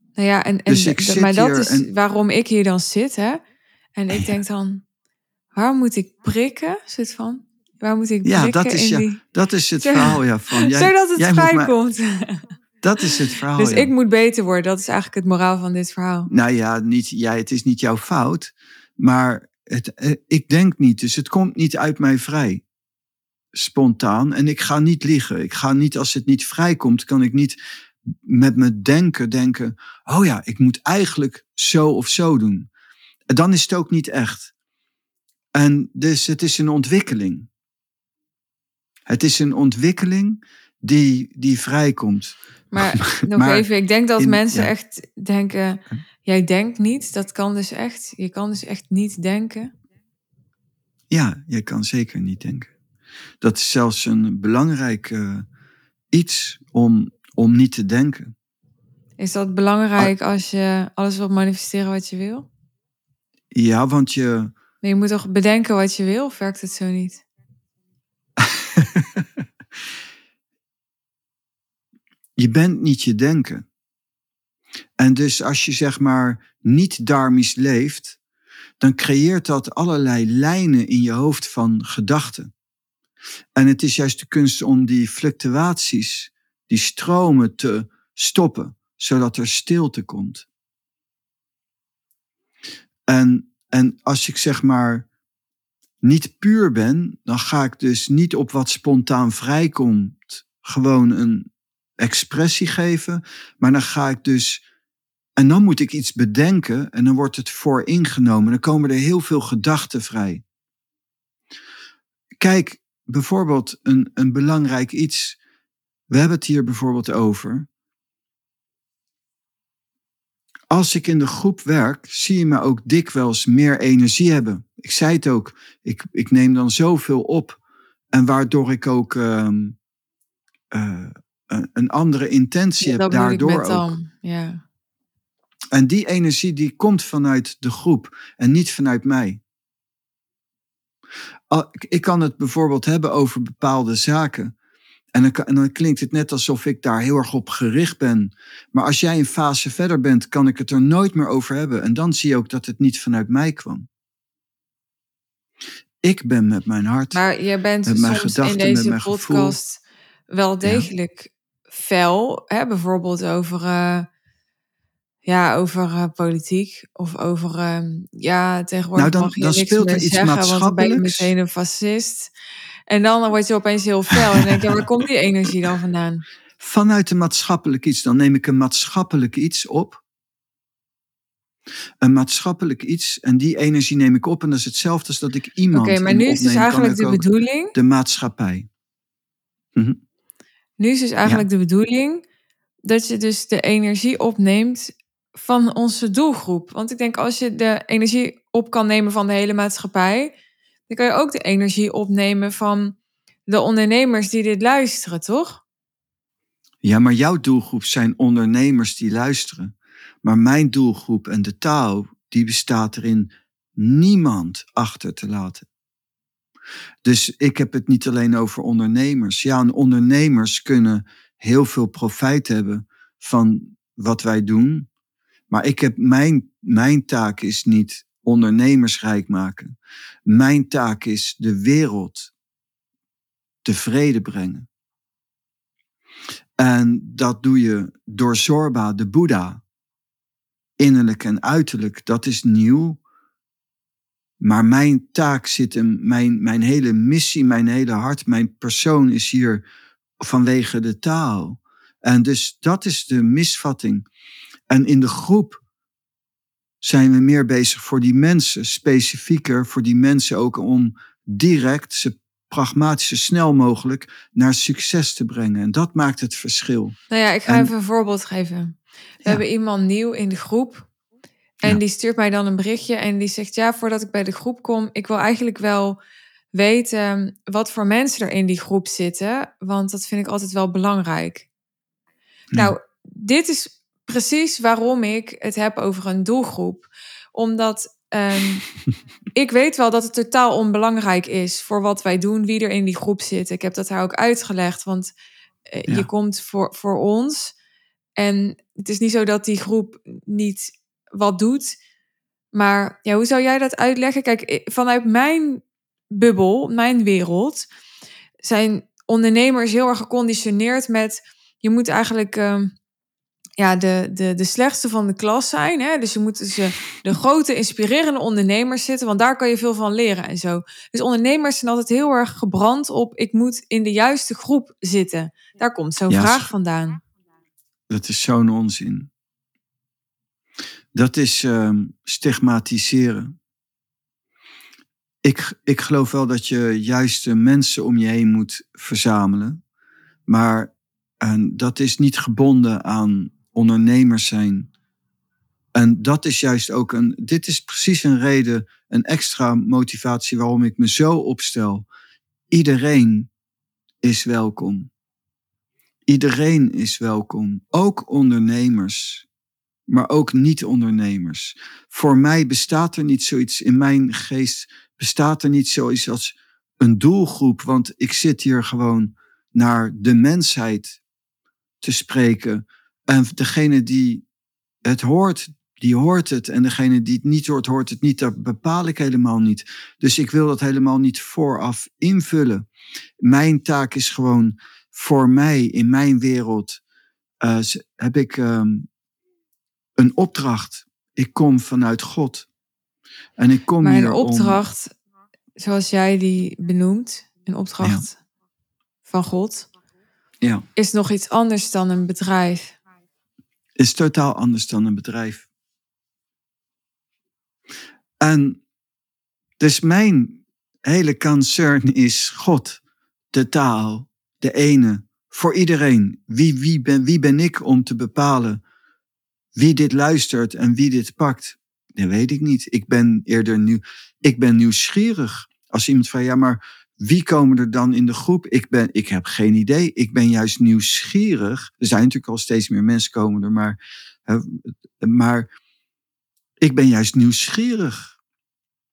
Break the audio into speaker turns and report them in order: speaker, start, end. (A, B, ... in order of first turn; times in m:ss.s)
0:00.2-0:03.4 A
0:00.7-0:01.9 B
0:04.0-0:04.8 A
0:05.6-0:09.2 A
0:08.2-0:11.7 B
0:09.8-0:12.5 A
0:12.8-0:13.9 B
0:13.0-0:16.3 A
0:16.3-0:22.6 B
0:23.5-0:27.6 B
0:28.1-0:32.7 B
0:33.3-0:34.5 B
0:35.6-0:37.5 B
0:39.1-0:43.7 B
0:42.7-0:49.7 A
0:44.2-0:44.7 B
0:51.1-0:52.7 B
0:53.4-0:55.5 B
0:56.1-0:58.3 B
0:59.2-1:02.5 A
1:03.5-1:04.5 B
1:04.8-1:07.2 A
1:08.4-1:09.2 B
1:12.4-1:13.7 B
1:15.0-1:18.2 B
1:18.8-1:22.5 B
1:23.6-1:30.5 B
1:33.1-1:35.1 B
1:36.0-1:41.5 B
1:42.0-1:44.6 B
1:45.4-1:50.4 B
1:52.4-1:55.4 B
1:56.1-1:57.7 B
2:00.7-2:07.6 B
2:08.1-2:09.8 B
2:10.7-2:13.9 B
2:12.8-2:14.6 A
2:15.7-2:19.4 B
2:21.5-2:24.5 B
2:25.2-2:33.9 B
2:36.0-2:37.2 B
2:37.1-2:44.1 A
2:37.9-2:39.6 B
2:40.6-2:40.9 B
2:45.2-2:52.3 A
2:49.0-2:51.3 B
2:52.9-2:56.2 A
2:56.6-3:00.0 B
3:02.0-3:08.7 B
3:05.7-3:07.7 A
3:10.8-3:12.2 A
3:12.8-3:20.3 A
3:20.9-3:23.0 A
3:23.5-3:25.6 A
3:26.8-3:35.7 B
3:37.0-3:44.9 B
3:45.5-3:49.8 B
3:50.3-3:52.3 B
3:53.6-3:54.7 B
3:56.6-3:59.6 B
4:00.8-4:03.0 B
4:04.4-4:09.6 B
4:10.2-4:14.0 B
4:14.7-4:15.6 B
4:16.8-4:27.7 B
4:27.1-4:30.9 A
4:31.6-4:36.0 A
4:36.5-4:41.5 A
4:42.6-4:48.6 A
4:49.4-4:55.1 A
4:55.7-4:57.5 A
4:58.2-5:01.8 A
5:02.5-5:07.7 A
5:08.4-5:12.7 A
5:13.6-5:27.0 A
5:26.1-5:26.5 B
5:27.9-5:29.1 B
5:30.9-5:33.4 B
5:35.2-5:39.6 B
5:40.3-5:44.7 B
5:45.8-5:51.9 B
5:52.5-5:53.3 B
5:54.0-5:54.9 B
5:56.1-5:59.3 B
5:59.9-6:11.0 B
6:11.8-6:14.2 B
6:14.8-6:22.7 B
6:23.2-6:26.8 B
6:27.4-6:28.9 B
6:30.0-6:32.5 B
6:33.4-6:34.6 B
6:33.8-6:34.9 A
6:35.6-6:38.2 A
6:39.0-6:39.7 A
6:40.8-6:42.8 A
6:43.8-6:45.5 B
6:48.2-6:48.6 B
6:49.6-6:52.8 B
6:53.3-6:58.6 B
6:59.6-7:15.5 B
7:16.6-7:18.2 B